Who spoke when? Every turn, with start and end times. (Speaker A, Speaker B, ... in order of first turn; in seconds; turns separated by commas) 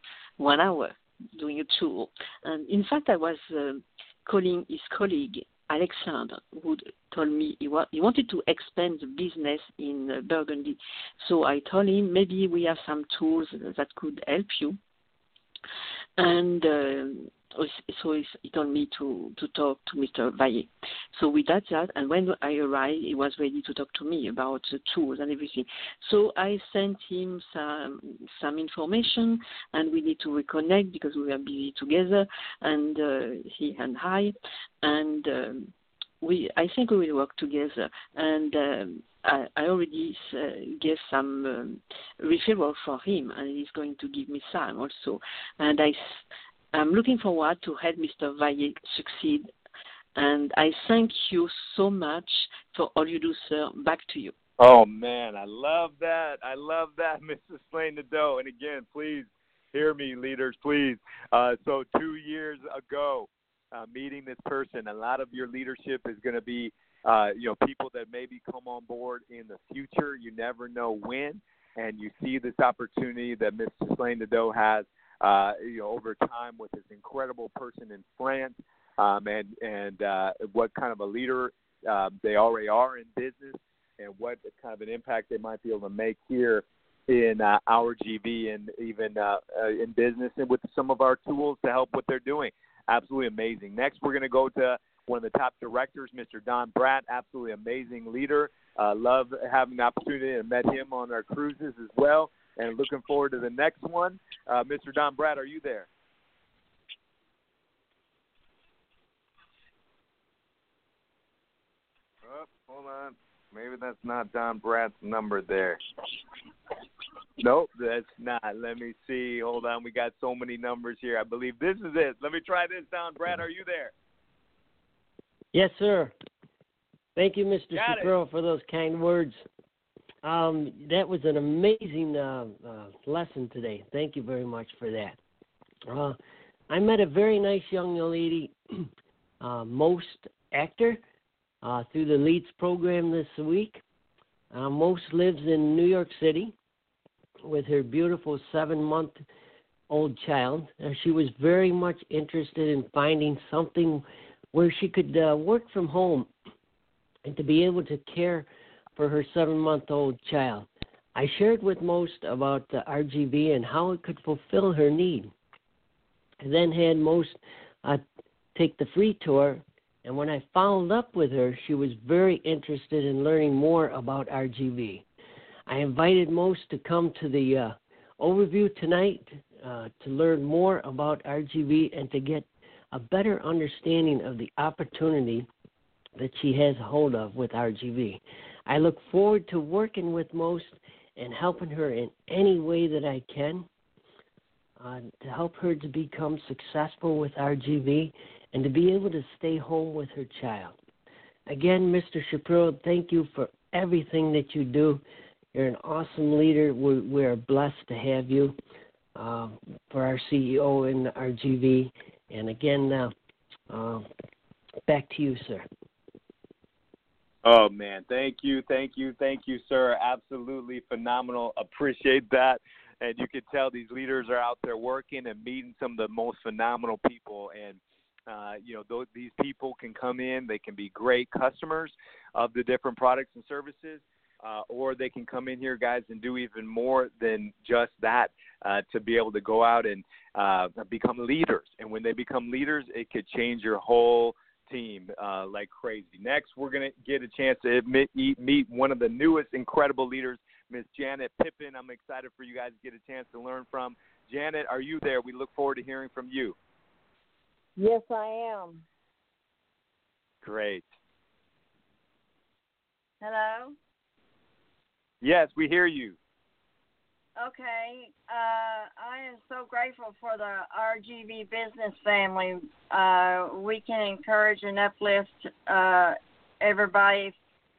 Speaker A: 0.4-14.8, Speaker A: 16.2-46.0, Speaker A: 46.7-49.5, Speaker A: 50.1-54.3, Speaker B: 54.6-105.9, Speaker B: 112.2-115.8, Speaker B: 117.4-123.9, Speaker C: 125.5-126.1, Speaker C: 127.2-129.4, Speaker B: 127.7-128.1, Speaker C: 130.2-135.2, Speaker C: 135.9-136.2, Speaker C: 136.7-138.9, Speaker C: 139.4-141.0, Speaker C: 141.6-143.8, Speaker C: 144.5-146.5, Speaker C: 147.4-149.2, Speaker C: 149.9-156.3, Speaker C: 157.2-165.3, Speaker C: 166.4-168.0, Speaker C: 168.5-175.0, Speaker C: 175.7-185.5, Speaker C: 186.2-193.7, Speaker C: 194.8-200.8, Speaker C: 201.5-205.0, Speaker C: 205.5-208.6, Speaker C: 209.2-213.1, Speaker C: 213.7-214.1, Speaker C: 214.9-215.7, Speaker B: 217.4-256.6, Speaker D: 257.8-258.8, Speaker B: 260.4-260.9, Speaker D: 263.2-263.8, Speaker B: 265.2-266.1, Speaker D: 267.4-277.3